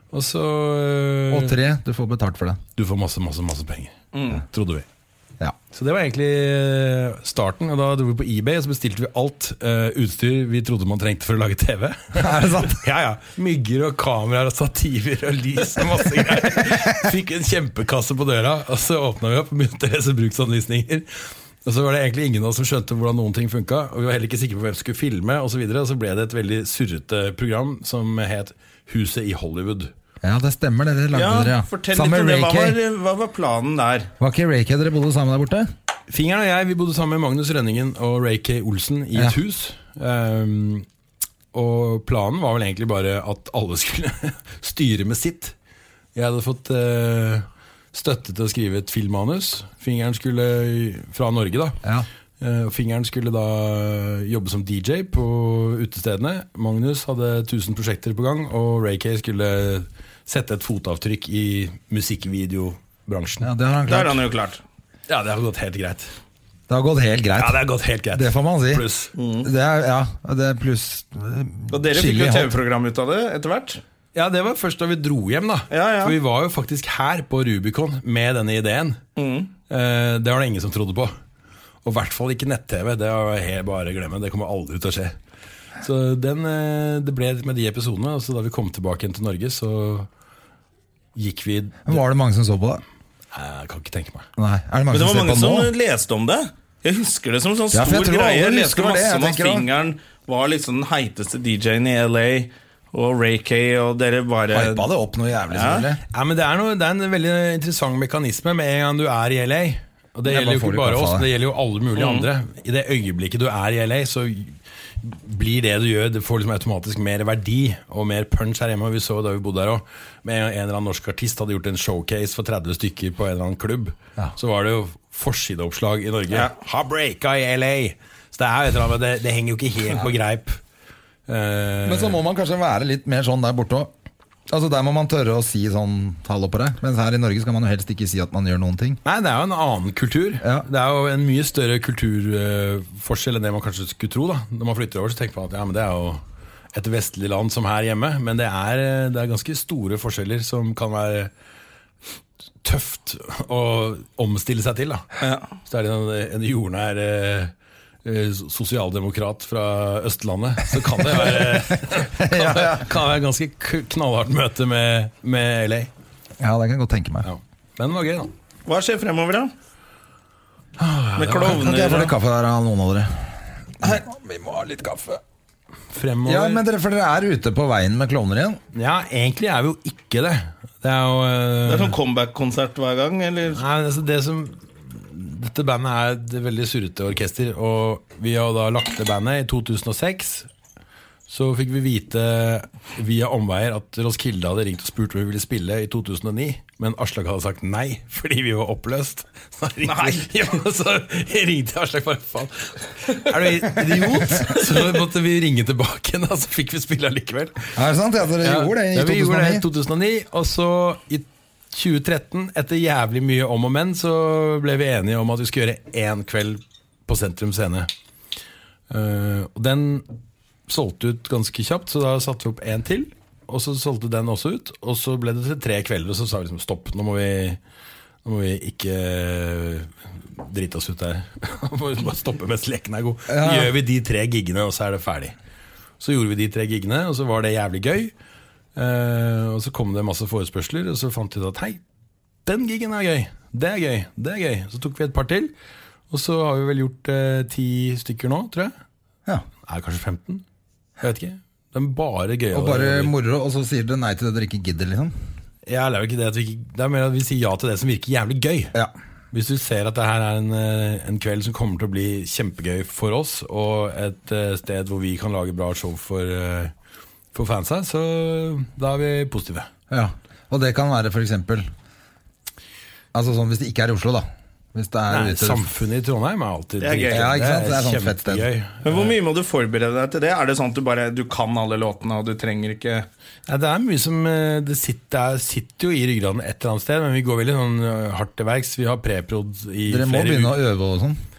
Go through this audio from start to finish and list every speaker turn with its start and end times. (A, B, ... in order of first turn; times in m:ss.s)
0:00.1-0:01.6 A
0:01.3-0:02.6 B
0:02.8-0:04.8 A
0:04.1-0:04.4 C
0:05.7-0:29.9 A
0:12.2-0:12.8 B
0:30.2-0:32.8 B
0:31.1-0:34.1 C
0:34.2-0:35.7 B
0:36.1-0:40.8 A
0:41.5-0:45.5 A
0:46.1-0:51.8 A
0:52.4-1:03.5 A
1:03.4-1:04.2 B
1:03.9-1:04.6 C
1:05.1-1:06.1 A
1:06.7-1:07.6 B
1:07.4-1:09.1 A
1:08.1-1:08.8 B
1:09.1-1:09.5 C
1:09.4-1:12.6 B
1:11.7-1:13.8 C
1:14.1-1:19.0 A
1:15.7-1:16.2 C
1:19.2-1:19.5 C
1:19.7-1:21.1 A
1:21.8-1:25.1 A
1:25.8-1:30.1 A
1:31.2-1:32.0 A
1:31.8-1:32.8 B
1:33.3-1:34.3 A
1:34.4-1:35.7 B
1:34.9-1:44.9 C
1:37.7-1:39.7 B
1:44.5-1:46.0 B
1:45.5-1:45.9 C
1:46.1-2:10.6 A
1:50.2-1:51.3 B
1:52.0-1:52.2 C
2:11.3-2:12.2 A
2:11.8-2:13.9 B
2:14.5-2:19.0 B
2:19.0-2:26.2 A
2:26.7-2:31.3 A
2:32.6-2:35.1 A
2:35.2-2:35.4 C
2:35.6-2:37.5 A
2:38.0-2:45.9 A
2:41.0-2:42.9 B
2:46.4-2:47.3 B
2:47.2-2:48.3 A
2:48.6-2:49.5 C
2:50.8-2:51.6 A
2:51.2-2:52.1 C
2:51.4-2:55.2 B
2:55.9-2:56.6 A
2:56.2-2:58.6 B
2:58.7-3:02.0 A
3:01.6-3:03.6 C
3:03.5-3:10.5 A
3:11.3-3:27.7 A
3:19.8-3:20.3 C
3:27.7-3:29.6 B
3:28.4-3:37.9 A
3:38.9-3:40.0 A
3:40.7-3:47.6 A
3:48.2-3:55.3 A
3:53.3-3:53.7 B
3:56.0-3:58.1 A
3:58.8-4:01.8 A
4:02.4-4:05.5 A
4:06.1-4:08.7 A
4:09.6-4:10.4 A
4:11.0-4:13.1 A
4:12.5-4:15.1 B
4:15.6-4:18.7 A
4:19.3-4:26.7 A
4:27.3-4:29.7 A
4:29.9-4:31.7 B
4:33.1-4:35.7 B
4:35.1-4:39.1 A
4:36.8-4:37.2 C
4:37.1-4:38.5 B
4:38.8-4:43.1 C
4:43.5-4:50.6 A
4:49.9-4:51.2 B